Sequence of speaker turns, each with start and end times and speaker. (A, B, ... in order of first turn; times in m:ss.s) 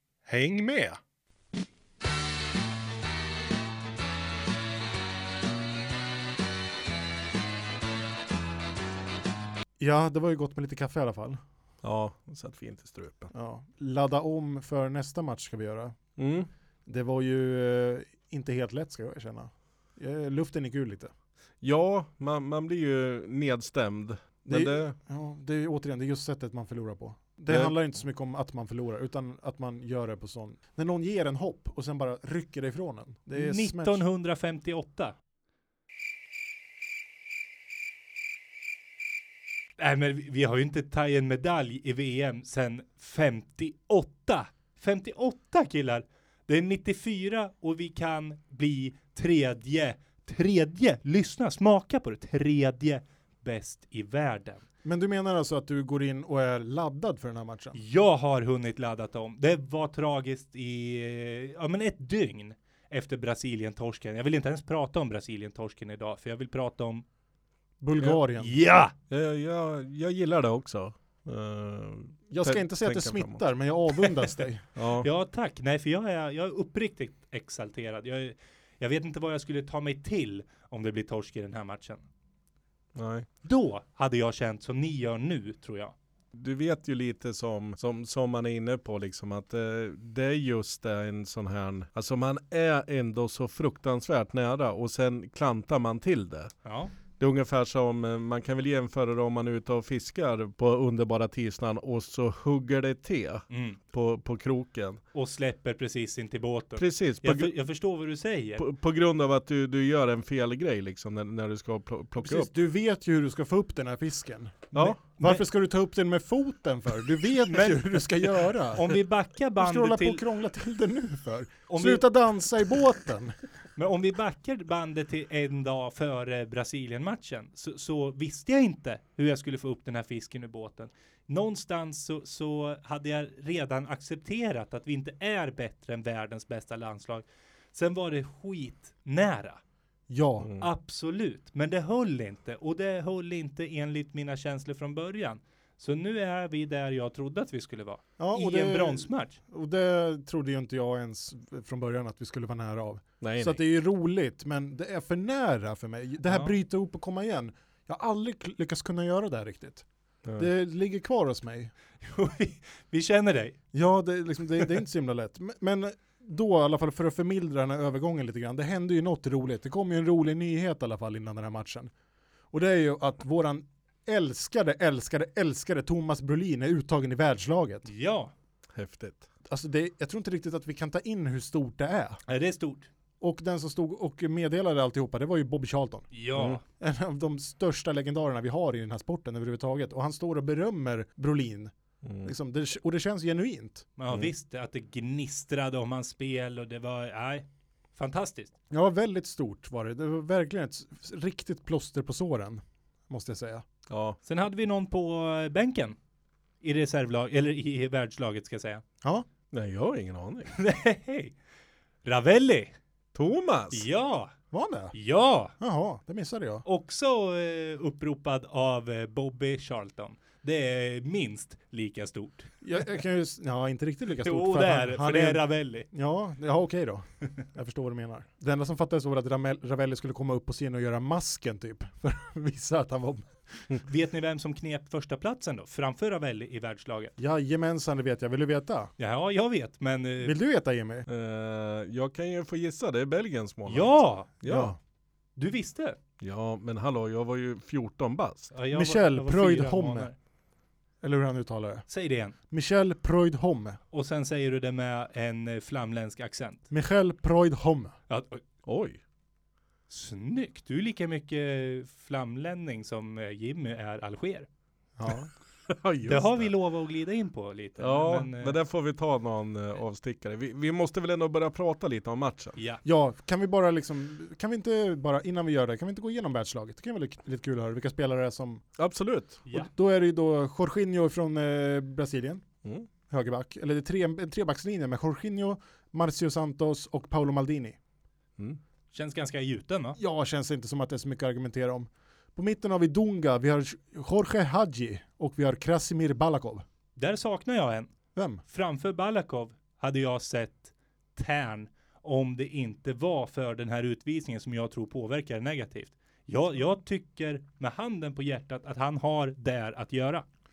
0:00.3-0:01.0 A
0:09.8-0:11.4 A
0:11.8-0:13.3 B
0:13.3-0:16.0 A
0:16.2-0:16.5 B
0:16.9-0:21.1 A
0:21.6-0:25.0 B
0:24.4-0:34.0 A
0:33.4-0:35.2 C
0:39.8-0:54.6 C
0:54.8-0:57.8 A
0:57.8-1:07.0 C
1:07.8-1:08.6 A
1:08.4-1:08.9 C
1:09.1-1:13.4 B
1:12.3-1:14.6 A
1:14.8-1:15.1 B
1:15.0-1:22.0 C
1:23.0-1:23.3 B
1:23.4-1:26.0 C
1:26.3-1:36.5 B
1:36.6-1:36.9 C
1:37.2-1:45.0 B
1:43.5-1:43.8 C
1:45.1-1:48.7 C
1:46.8-1:47.5 B
1:48.6-1:52.5 B
1:52.2-1:58.9 A
1:54.8-1:55.4 C
1:58.8-2:00.2 C
1:59.6-2:03.4 A
2:01.7-2:02.0 C
2:03.8-2:19.6 C
2:20.1-2:20.5 A
2:20.4-2:20.7 B
2:20.6-2:29.4 C
2:28.2-2:39.8 A
2:33.2-2:33.6 B
2:36.2-2:36.5 C
2:40.4-2:41.7 A
2:42.0-2:43.6 C
2:43.7-2:51.9 A
2:52.5-2:57.9 A
2:57.9-2:58.3 C
2:58.7-2:59.3 B
2:59.5-3:02.2 A
3:02.3-3:02.9 C
3:03.2-3:06.1 A
3:06.1-3:06.6 C
3:06.4-3:06.6 B
3:06.8-3:11.7 A
3:12.0-3:12.3 B
3:12.2-3:13.9 A
3:14.0-3:18.5 C
3:18.7-3:23.6 A
3:23.9-3:24.2 B
3:24.3-3:26.0 C
3:26.6-3:28.8 C
3:29.5-3:30.5 B
3:30.5-3:31.3 C
3:32.0-3:32.7 C
3:33.2-3:33.9 B
3:33.7-3:34.3 C
3:34.5-3:35.0 A
3:34.9-3:35.6 C
3:35.6-3:36.6 A
3:36.6-3:42.5 C
3:42.6-3:53.7 A
3:44.2-3:45.9 C
3:53.9-3:57.1 C
3:57.2-3:58.9 A
3:59.0-4:00.4 C
4:00.2-4:01.1 A
4:01.1-4:04.8 B
4:03.7-4:04.3 C
4:04.4-4:04.8 A
4:05.4-4:06.0 C
4:06.2-4:08.5 B
4:08.5-4:10.2 C
4:08.7-4:10.1 A
4:11.0-4:11.9 A
4:11.9-4:12.4 C
4:12.5-4:13.8 A
4:13.9-4:16.6 C
4:16.7-4:17.9 A
4:18.1-4:18.4 C
4:18.6-4:19.0 B
4:19.9-4:24.5 C
4:25.0-4:25.3 A
4:25.7-4:26.5 B
4:26.1-4:28.6 C
4:27.8-4:32.6 B
4:32.6-4:32.8 C
4:32.8-4:38.6 A
4:38.8-4:39.4 B
4:39.5-4:42.4 A
4:43.1-4:47.8 A
4:48.9-4:50.0 C
4:50.0-4:56.6 A
4:57.0-4:57.9 C
4:58.2-4:58.4 A
4:58.5-5:10.3 C